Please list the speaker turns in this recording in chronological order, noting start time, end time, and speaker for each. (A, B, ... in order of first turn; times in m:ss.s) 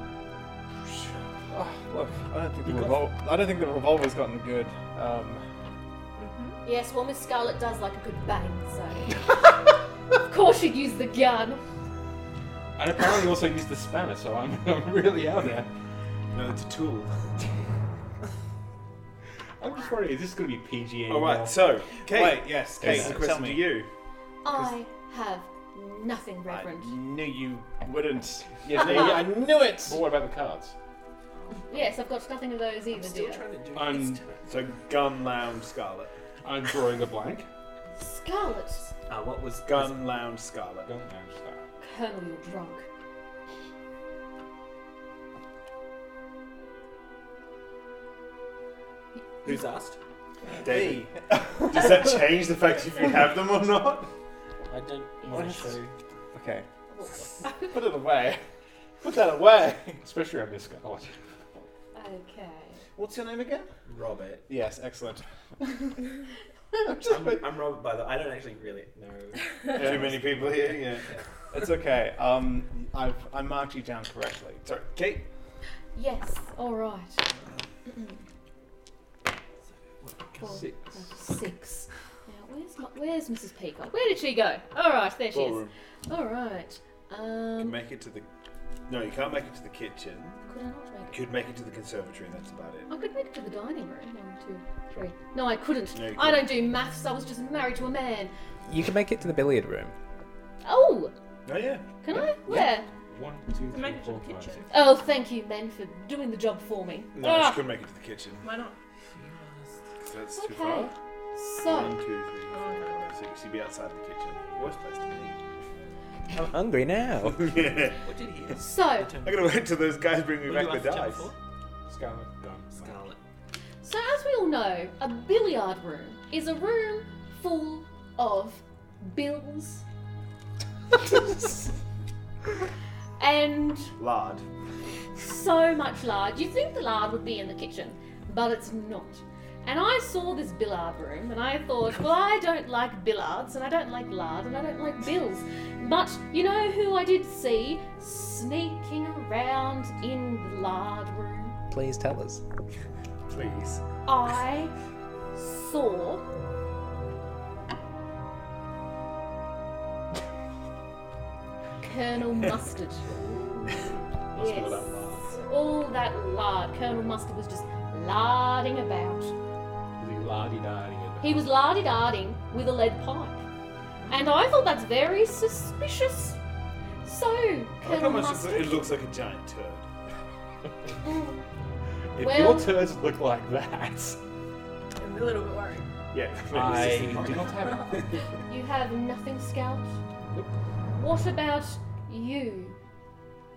0:00.9-0:05.4 A
0:02.7-0:03.0 B
0:06.2-0:06.6 C
0:06.6-0:09.2 D
0:10.2-0:11.6 D
0:12.8-0:15.7 B
0:16.3-0:17.3 E
0:19.6-0:21.6 B
0:21.1-0:23.9 E
0:22.0-0:23.8 A
0:22.8-0:23.1 B
0:24.4-0:26.9 D
0:26.5-0:30.0 A
0:28.6-0:30.7 B
0:31.4-0:32.0 F
0:31.7-0:33.4 D
0:32.9-0:34.5 F
0:33.7-0:34.2 B
0:34.4-0:36.1 E
0:36.4-0:37.5 B
0:38.0-0:38.9 D
0:39.1-0:40.2 F
0:39.6-0:40.9 E
0:40.8-0:41.6 B
0:41.8-0:42.8 D
0:49.4-0:50.0 F
0:50.6-0:54.1 E
0:50.6-0:52.1 A
0:54.7-0:55.9 F
0:55.2-0:55.6 D
0:56.3-0:56.6 A
0:56.9-0:57.7 D
0:57.5-0:58.4 A
0:59.0-1:00.0 A
1:00.0-1:01.1 B
1:01.9-1:02.8 D
1:03.0-1:03.6 A
1:03.8-1:04.4 F
1:04.5-1:05.9 A
1:06.7-1:07.5 A
1:07.0-1:10.8 F
1:09.7-1:11.1 E
1:11.5-1:14.6 A
1:14.6-1:15.2 E
1:15.9-1:17.2 D
1:17.9-1:18.2 D
1:19.9-1:20.6 F
1:20.4-1:27.8 D
1:20.4-1:21.2 B
1:25.3-1:25.7 E
1:27.6-1:28.2 E
1:28.9-1:30.4 E
1:30.5-1:31.2 D
1:31.1-1:32.9 E
1:32.9-1:38.3 D
1:35.9-1:36.6 E
1:38.6-1:39.9 G
1:40.6-1:41.1 D
1:41.4-1:41.9 E
1:42.0-1:42.8 D
1:42.1-1:44.7 B
1:43.7-1:44.7 C
1:44.7-1:47.6 D
1:47.1-1:48.4 E
1:48.4-1:48.8 C
1:49.1-1:49.8 F
1:50.0-1:50.9 E
1:50.3-1:52.0 D
1:51.6-1:55.4 E
1:52.5-1:53.2 C
1:56.3-1:57.7 G
1:57.2-1:58.0 E
1:58.0-1:59.6 F
1:58.6-1:59.1 D
1:59.2-2:01.3 E
2:00.4-2:01.3 F
2:01.9-2:02.9 B
2:02.7-2:03.2 F
2:03.8-2:09.8 D
2:13.2-2:13.9 D
2:14.0-2:14.4 E
2:15.2-2:31.6 D
2:31.7-2:32.4 G
2:33.3-2:33.8 E
2:34.0-2:34.7 D
2:35.3-2:36.2 D
2:41.8-2:43.2 D
2:44.3-2:45.3 B
2:44.3-2:49.3 D
2:50.0-2:51.5 B
2:51.2-2:53.4 D
2:54.1-2:56.4 D
2:57.0-2:58.9 D
2:57.8-2:59.8 E
3:01.0-3:01.4 D
3:02.1-3:04.2 B
3:02.2-3:02.8 D
3:05.0-3:05.9 C
3:06.1-3:07.5 E
3:06.5-3:08.0 B
3:06.6-3:07.5 F
3:07.6-3:07.9 C
3:08.5-3:10.0 D
3:11.0-3:12.8 D